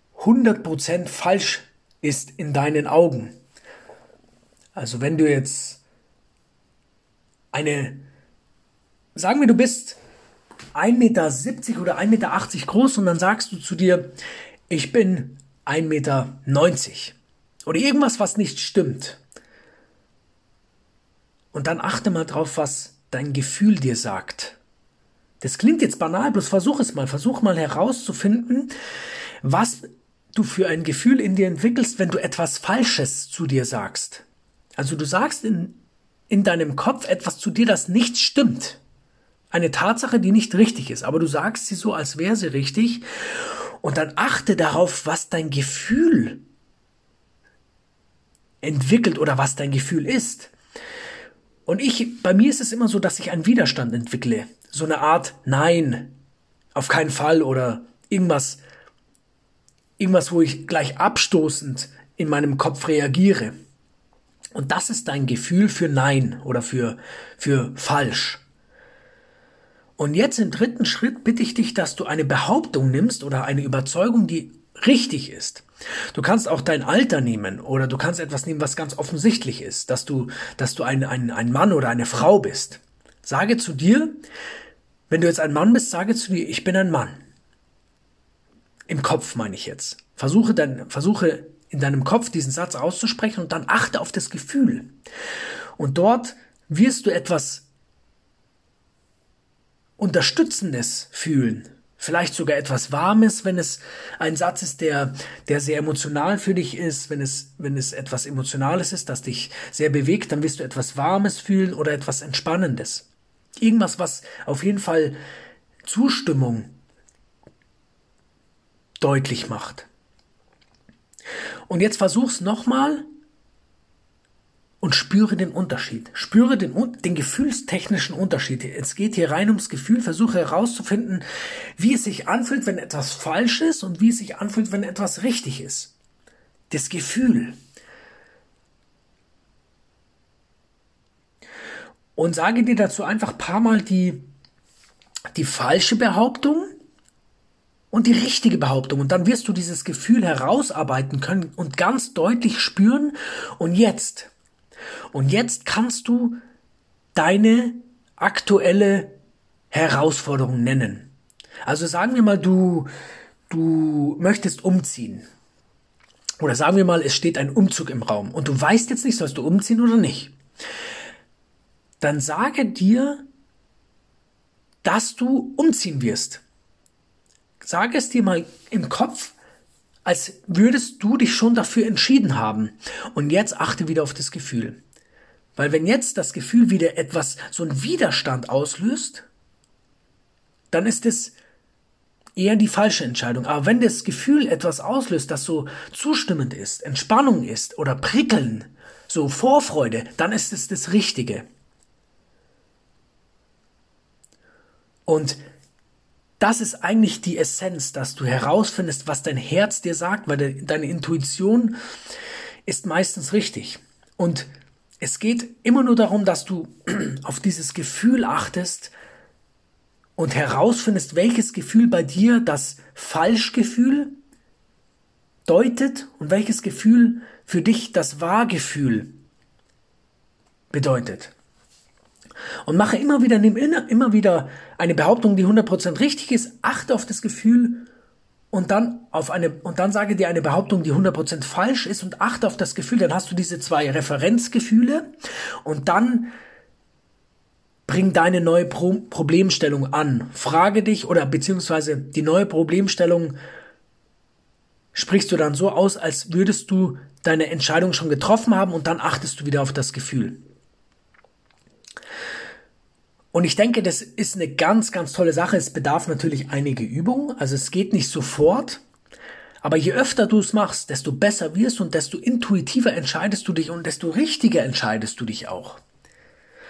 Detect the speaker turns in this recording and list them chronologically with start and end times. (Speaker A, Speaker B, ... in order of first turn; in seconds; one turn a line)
Speaker A: 0.1-3.3
Speaker A: 4.7-5.8
Speaker A: 7.5-8.0
Speaker A: 9.1-10.0
Speaker A: 10.7-14.1
Speaker A: 14.7-19.2
Speaker A: 21.5-24.6
Speaker A: 25.4-28.7
Speaker A: 29.4-34.2
Speaker A: 34.8-35.8
Speaker A: 36.3-38.8
Speaker A: 39.5-43.0
Speaker A: 43.8-46.4
Speaker A: 48.6-50.5
Speaker A: 51.6-56.2
Speaker A: 56.7-58.6
Speaker A: 60.0-63.5
Speaker A: 64.5-68.4
Speaker A: 70.0-84.2
Speaker A: 85.1-87.2
Speaker A: 88.9-94.9
Speaker A: 95.8-97.7
Speaker A: 100.0-113.1
Speaker A: 113.6-115.2
Speaker A: 115.8-116.7
Speaker A: 119.0-119.9
Speaker A: 121.7-123.0
Speaker A: 124.8-131.2
Speaker A: 131.8-135.9
Speaker A: 136.7-137.6
Speaker A: 142.2-144.3
Speaker A: 145.3-146.7
Speaker A: 147.9-154.3
Speaker A: 155.1-156.4
Speaker A: 157.1-159.2
Speaker A: 159.7-161.1
Speaker A: 161.7-162.9
Speaker A: 163.5-165.2
Speaker A: 166.4-170.3
Speaker A: 172.0-173.2
Speaker A: 174.8-176.4
Speaker A: 177.6-179.3
Speaker A: 180.0-184.8
Speaker A: 185.6-189.3
Speaker A: 190.7-191.3
Speaker A: 192.3-201.4
Speaker A: 205.1-205.4
Speaker A: 206.4-211.7
Speaker A: 212.7-218.9
Speaker A: 220.2-224.2
Speaker A: 225.4-229.2
Speaker A: 230.7-231.3
Speaker A: 232.7-237.9
Speaker A: 238.5-245.1
Speaker A: 245.6-246.3
Speaker A: 247.9-253.4
Speaker A: 254.9-260.4
Speaker A: 263.3-268.8
Speaker A: 269.6-275.8